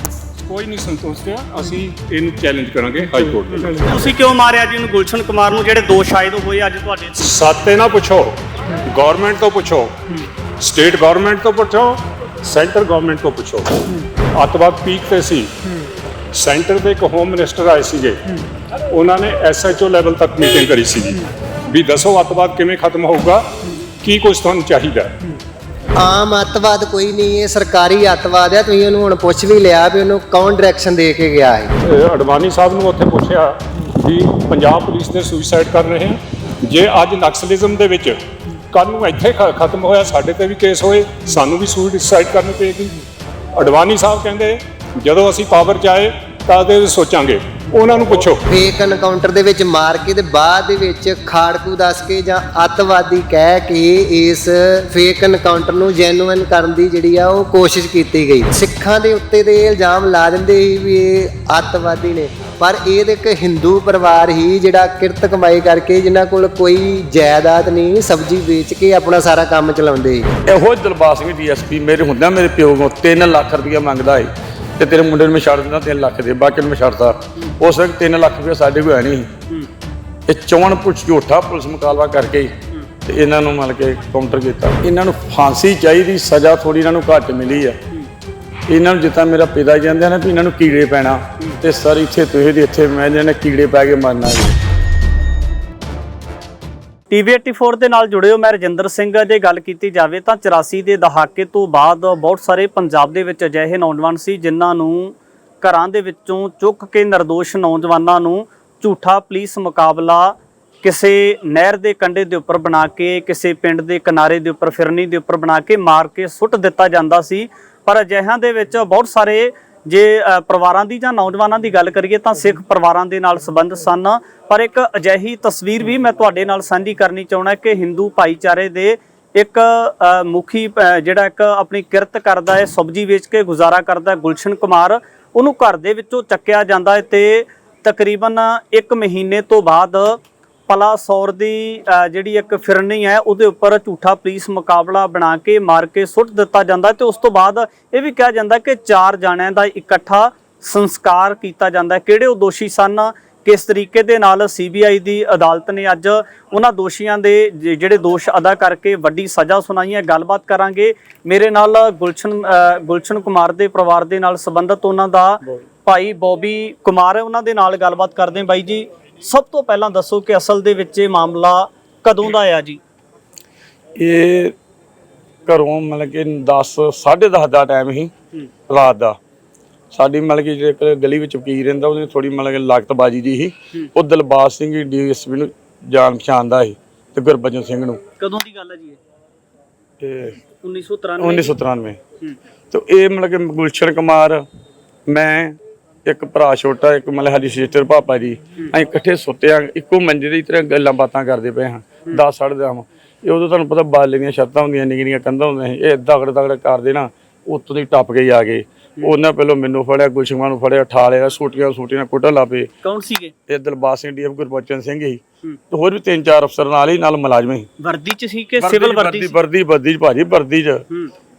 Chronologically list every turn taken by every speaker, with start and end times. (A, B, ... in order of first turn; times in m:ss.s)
0:00.4-0:03.9 A
0:03.7-0:07.4 B
0:07.2-0:09.9 A
0:10.6-0:15.5 A
0:16.3-0:18.2 A
0:18.9-0:23.5 A
0:24.0-0:25.1 A
0:26.0-0:31.7 C
0:31.8-0:38.2 A
0:38.7-0:43.0 A
0:43.6-0:48.4 A
0:48.5-1:10.3 C
1:10.5-1:19.3 D
1:20.3-1:22.5 D
1:23.0-1:27.8 D
1:28.7-1:34.6 D
1:37.1-2:52.8 B
2:54.0-2:54.5 D
2:55.5-2:58.1 D
2:58.7-2:59.2 D
2:59.9-3:08.0 D
3:08.2-3:09.0 B
3:10.0-3:10.4 D
3:10.6-3:11.5 B
3:11.2-3:12.0 D
3:12.7-3:14.4 D
3:15.1-3:32.7 D
3:32.8-3:33.3 B
3:33.5-3:37.7 D
3:37.8-3:39.3 B
3:38.6-3:40.8 D